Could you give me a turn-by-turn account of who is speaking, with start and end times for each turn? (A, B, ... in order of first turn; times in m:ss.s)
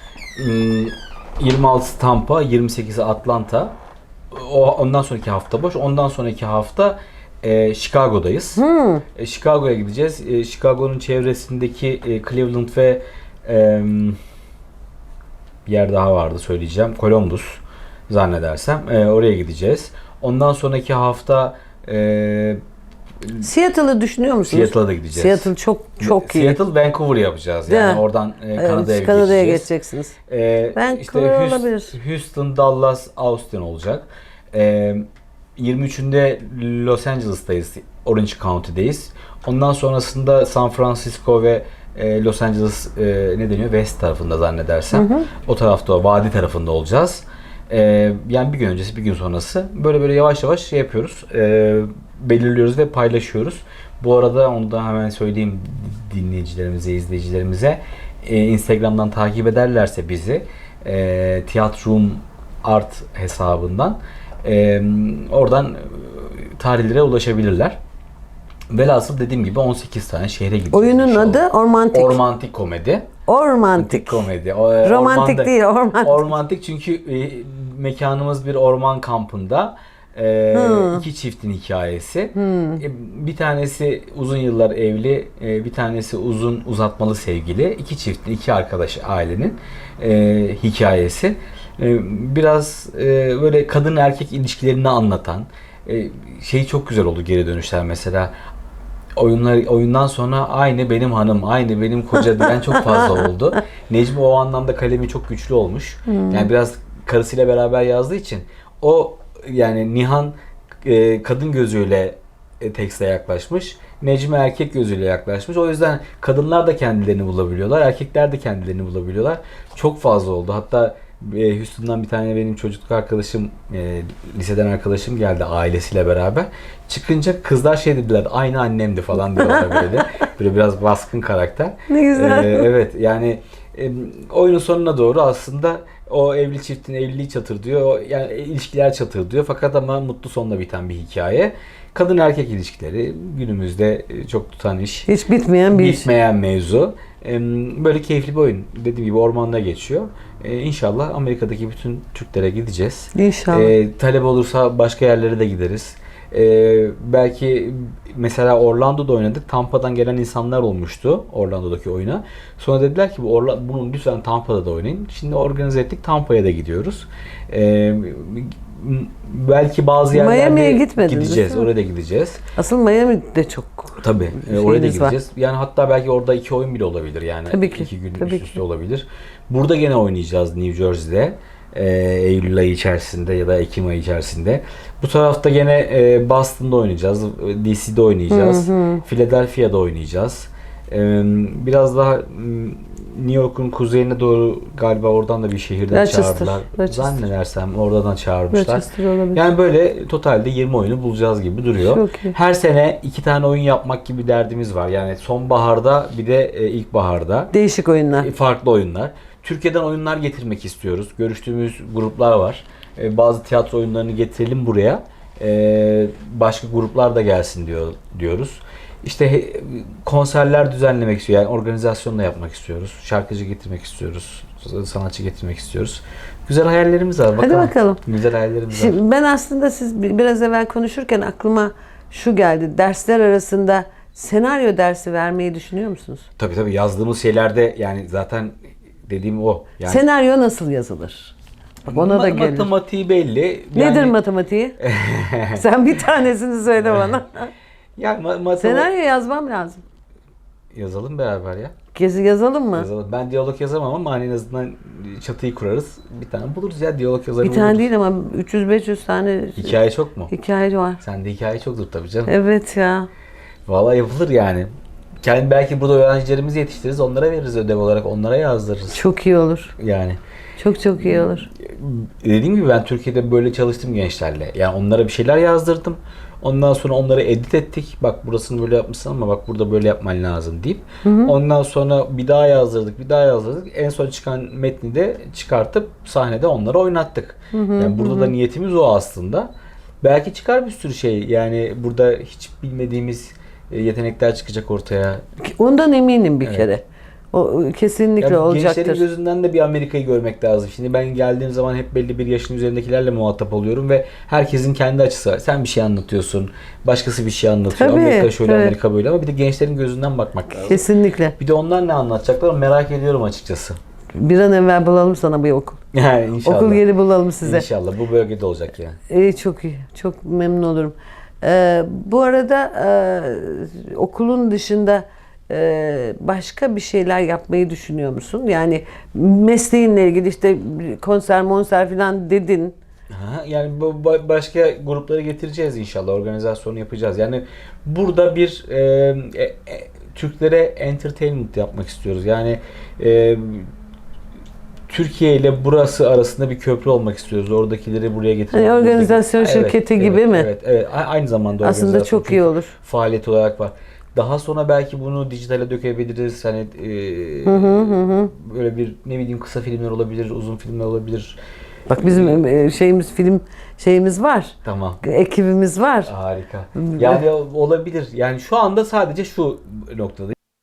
0:00.4-0:03.7 A
0:04.3-0:08.6 A
0:08.6-0:09.0 B
0:09.1-0:14.2 A
0:15.6-0:22.6 A
0:23.4-0:26.6 B
0:24.5-0:29.7 A
0:27.7-0:28.0 B
0:28.5-0:30.2 B
0:30.3-0:35.0 A
0:30.7-0:32.0 B
0:35.6-1:07.8 A
0:44.9-0:45.3 B
1:08.7-1:13.1 A
1:10.7-1:12.2 B
1:13.3-1:14.2 B
1:13.8-1:38.3 A
1:14.8-1:16.3 B
1:20.5-1:21.0 B
1:22.4-1:22.8 B
1:39.2-2:25.1 A
1:46.1-1:46.5 B
2:09.4-2:09.8 B
2:11.9-2:12.7 B
2:25.1-2:26.1 B
2:25.7-2:52.4 A
2:33.1-2:33.7 B
2:50.1-2:51.7 B
2:52.6-2:55.1 B
2:54.0-3:27.5 A
2:57.5-2:58.6 B
3:08.3-3:09.0 B
3:15.9-3:17.2 B
3:18.5-3:19.4 B
3:21.8-3:22.3 B
3:27.5-3:28.3 B
3:28.2-3:49.0 A
3:47.4-3:48.0 B
3:48.7-3:56.3 B
3:56.4-3:58.5 A
3:59.0-4:00.0 A
3:59.8-4:01.3 B
4:01.8-4:02.7 B
4:01.9-4:04.2 A
4:03.7-4:04.8 B
4:04.8-4:05.6 A
4:05.6-4:07.5 B
4:08.0-4:08.9 A
4:08.6-4:09.8 B
4:10.7-4:11.7 A
4:11.9-4:12.9 B
4:12.7-4:17.8 A
4:17.4-4:21.0 B
4:19.6-4:20.3 A
4:21.0-4:22.3 A
4:22.3-4:23.1 B
4:23.7-4:24.7 A
4:25.2-4:29.0 A
4:28.9-4:29.7 B
4:29.8-4:30.2 A
4:30.6-4:31.5 B
4:31.2-4:49.5 A
4:41.0-4:41.3 B
4:47.5-4:48.3 B
4:50.0-4:55.2 A
4:55.4-4:59.0 B
4:58.2-5:10.8 A
5:07.7-5:08.7 B
5:10.6-5:11.3 B
5:11.4-5:13.8 A
5:14.1-5:15.8 B
5:15.9-5:16.8 A
5:16.4-5:17.6 B
5:17.4-5:19.0 A
5:19.1-5:32.8 B
5:33.1-5:43.7 A
5:44.9-6:01.4 A
5:48.5-5:50.5 B
5:51.6-5:52.7 B
5:57.4-5:58.3 B
6:01.9-6:06.1 B
6:02.0-6:02.4 A
6:04.6-6:05.0 A
6:06.1-6:10.4 A
6:06.8-6:07.2 B